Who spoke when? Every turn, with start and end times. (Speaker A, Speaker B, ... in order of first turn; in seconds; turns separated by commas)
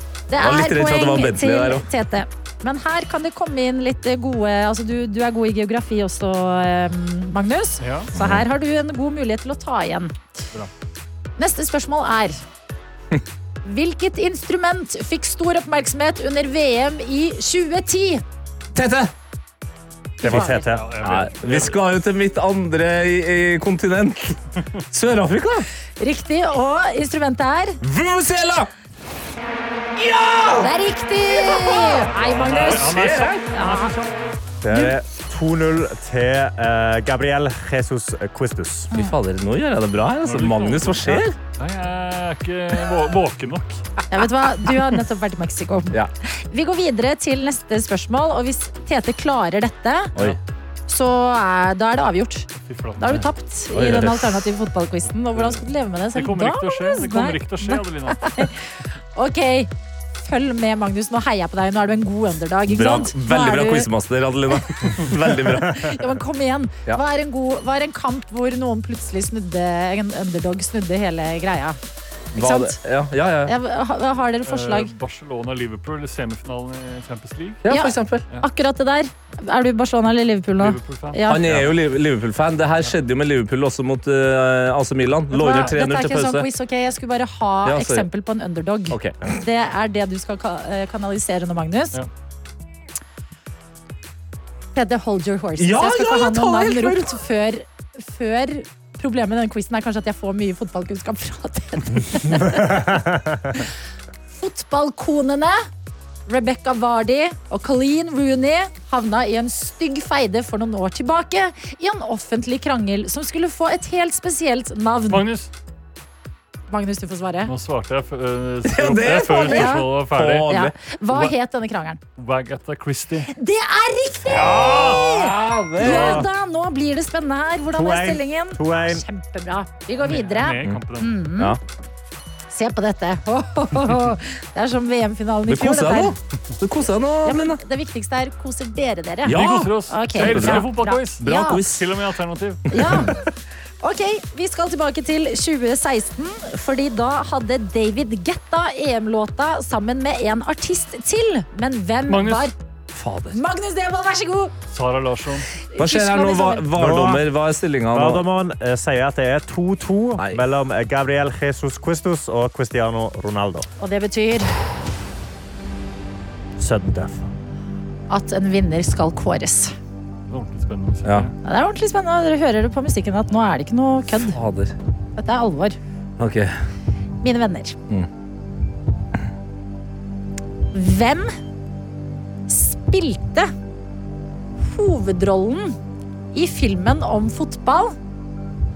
Speaker A: 0.3-10.1, Speaker B: 0.4-1.9, Speaker C: 7.8-8.1, Speaker B: 8.2-8.4, Speaker A: 11.4-12.4, Speaker A: 13.6-18.2, Speaker B: 18.7-19.1, Speaker D: 20.2-20.8, Speaker A: 20.2-20.6, Speaker C: 20.2-21.8, Speaker B: 20.3-24.4, Speaker B: 24.9-25.7, Speaker A: 26.0-27.8, Speaker B: 27.8-28.7, Speaker B: 30.0-30.7, Speaker A: 30.6-33.9, Speaker B: 31.5-33.4, Speaker C: 32.1-34.1, Speaker D: 34.6-38.9, Speaker B: 38.9-41.4, Speaker C: 40.2-43.8, Speaker A: 44.1-50.1, Speaker C: 44.6-45.0, Speaker A: 50.9-58.6, Speaker C: 52.5-53.3, Speaker B: 53.7-54.4, Speaker C: 55.0-58.5, Speaker A: 59.1-63.9, Speaker B: 62.7-66.0, Speaker A: 65.6-71.8, Speaker A: 72.3-72.8, Speaker B: 72.4-73.5, Speaker A: 73.5-74.9, Speaker C: 74.5-77.6, Speaker B: 77.6-78.3, Speaker A: 77.7-81.4, Speaker C: 80.5-81.2, Speaker B: 81.3-86.5, Speaker A: 85.3-92.0, Speaker B: 87.7-88.1, Speaker B: 88.9-89.3, Speaker A: 94.8-102.8, Speaker B: 95.6-97.2, Speaker D: 102.4-103.4, Speaker A: 104.3-105.6, Speaker A: 106.3-115.2, Speaker C: 115.1-115.5, Speaker A: 116.7-117.5, Speaker C: 117.4-120.5, Speaker B: 118.6-120.7, Speaker A: 119.4-119.9, Speaker A: 120.5-122.0, Speaker C: 122.2-123.3, Speaker A: 123.3-131.6, Speaker B: 124.3-126.2, Speaker C: 124.3-125.0, Speaker C: 125.8-126.2, Speaker D: 127.7-129.0, Speaker C: 130.0-131.2, Speaker A: 132.5-136.2, Speaker B: 135.5-137.6, Speaker A: 137.2-141.6, Speaker B: 139.2-141.9, Speaker C: 139.3-143.0, Speaker A: 142.7-143.2, Speaker B: 142.7-143.1, Speaker A: 143.8-152.5, Speaker C: 152.1-152.5, Speaker B: 152.9-153.4, Speaker A: 153.3-154.5, Speaker C: 154.7-155.5, Speaker A: 155.7-156.7, Speaker B: 155.8-158.2, Speaker D: 156.8-157.2, Speaker D: 157.9-163.7, Speaker A: 163.8-164.5, Speaker D: 166.6-167.3, Speaker A: 168.1-169.7, Speaker C: 170.3-171.3, Speaker A: 171.4-174.4, Speaker B: 174.2-174.8, Speaker A: 175.2-175.8, Speaker B: 176.2-176.5, Speaker A: 177.2-177.8, Speaker A: 180.7-181.3, Speaker A: 182.5-183.5, Speaker A: 184.6-185.8, Speaker A: 186.3-188.0